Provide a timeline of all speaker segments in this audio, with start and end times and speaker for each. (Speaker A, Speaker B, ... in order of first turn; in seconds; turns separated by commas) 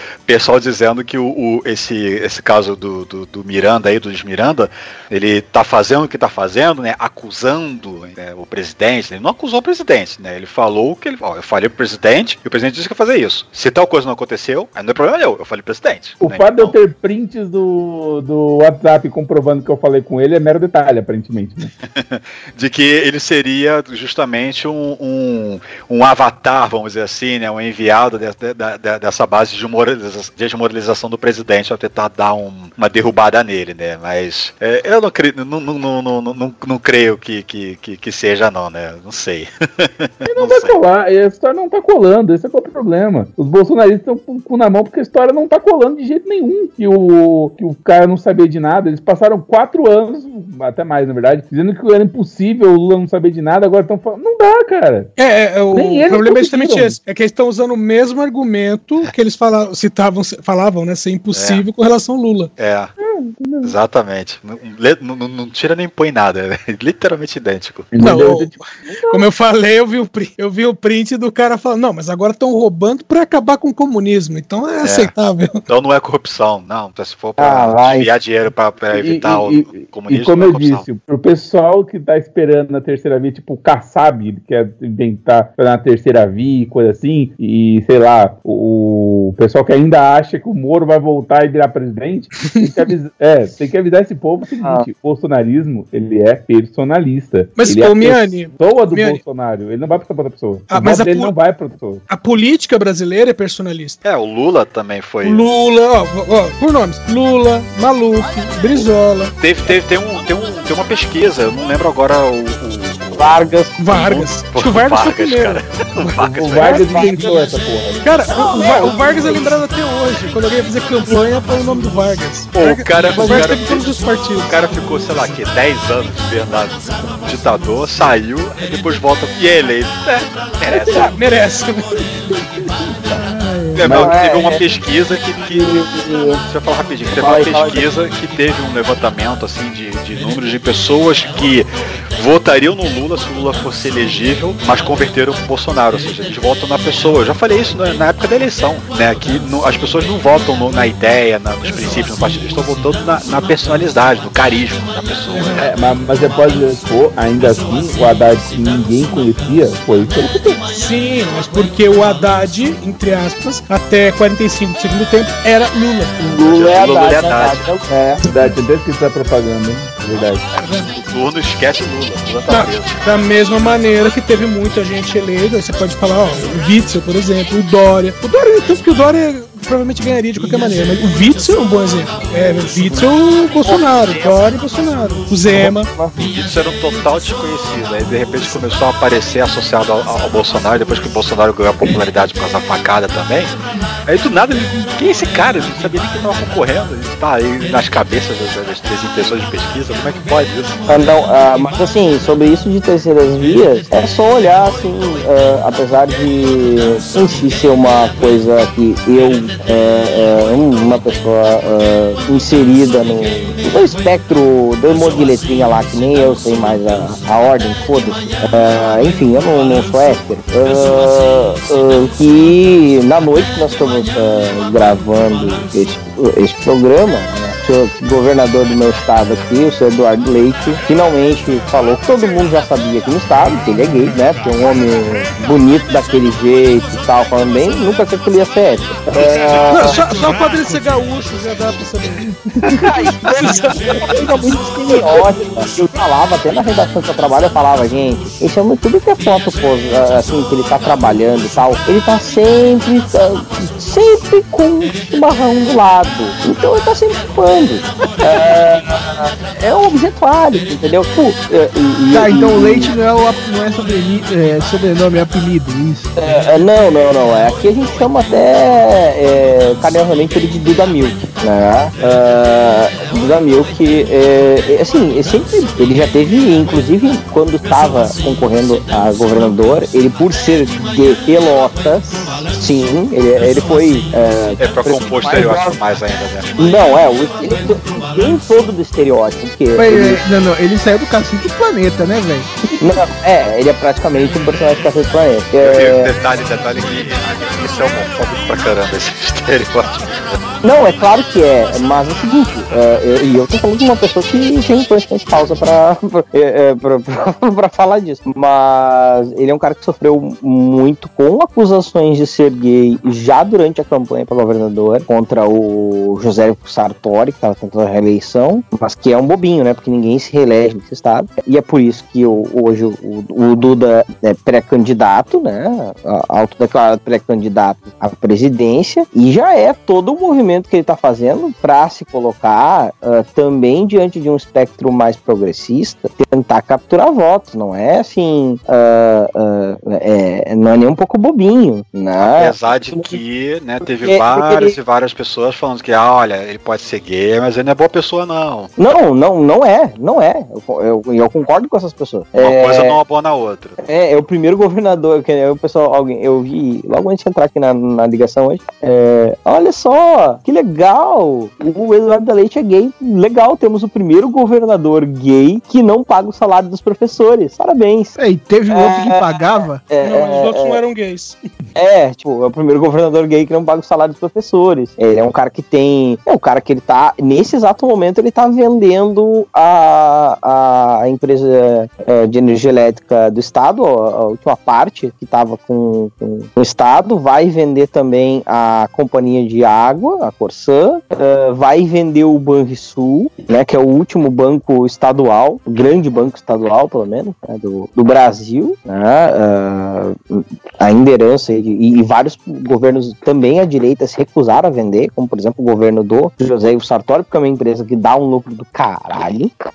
Speaker A: 0.3-16.8, Speaker B: 16.2-21.7, Speaker A: 21.8-40.8, Speaker B: 40.2-55.1, Speaker C: 55.2-62.5, Speaker B: 55.7-57.0, Speaker A: 61.3-61.6, Speaker A: 62.6-62.9, Speaker B: 63.2-63.7, Speaker A: 63.6-67.9, Speaker B: 67.9-69.3, Speaker C: 68.0-75.6, Speaker A: 74.8-75.1, Speaker A: 75.7-80.9, Speaker D: 77.4-78.1, Speaker B: 78.9-102.0, Speaker C: 92.4-92.9, Speaker C: 97.6-99.2, Speaker C: 100.7-101.3, Speaker C: 102.1-104.0, Speaker A: 104.0-105.5, Speaker C: 105.2-109.3, Speaker A: 109.4-117.2, Speaker D: 113.2-113.7, Speaker C: 113.8-117.4, Speaker B: 116.4-119.1, Speaker C: 118.0-124.6, Speaker A: 122.5-123.9, Speaker A: 124.5-131.1, Speaker C: 130.7-132.2, Speaker A: 133.8-135.8, Speaker B: 133.8-134.2, Speaker D: 133.9-134.6, Speaker D: 135.5-136.4, Speaker A: 136.5-155.7, Speaker D: 137.2-137.8, Speaker C: 155.3-155.6, Speaker B: 155.6-160.6, Speaker C: 160.7-166.2, Speaker D: 166.2-168.2, Speaker A: 166.4-167.8, Speaker C: 168.2-168.5, Speaker B: 168.3-170.4, Speaker A: 170.5-173.1, Speaker C: 170.6-170.9, Speaker C: 172.5-185.9, Speaker A: 173.6-174.0, Speaker A: 183.6-184.4, Speaker A: 186.2-193.6, Speaker A: 194.1-200.8, Speaker D: 200.9-240.0, Speaker C: 239.7-244.1, Speaker D: 242.8-263.0, Speaker E: 262.1-266.1, Speaker D: 266.2-285.8, Speaker A: 284.6-286.5, Speaker D: 286.6-290.2, Speaker E: 289.7-292.5, Speaker D: 292.8-296.1, Speaker A: 295.6-300.4, Speaker D: 300.6-343.2, Speaker A: 342.2-348.7, Speaker D: 344.0-344.8, Speaker D: 348.8-353.0, Speaker A: 352.4-353.8, Speaker D: 353.8-368.2, Speaker E: 368.2-369.9, Speaker D: 368.7-369.4, Speaker D: 369.9-370.8, Speaker C: 370.0-371.4, Speaker D: 371.8-409.5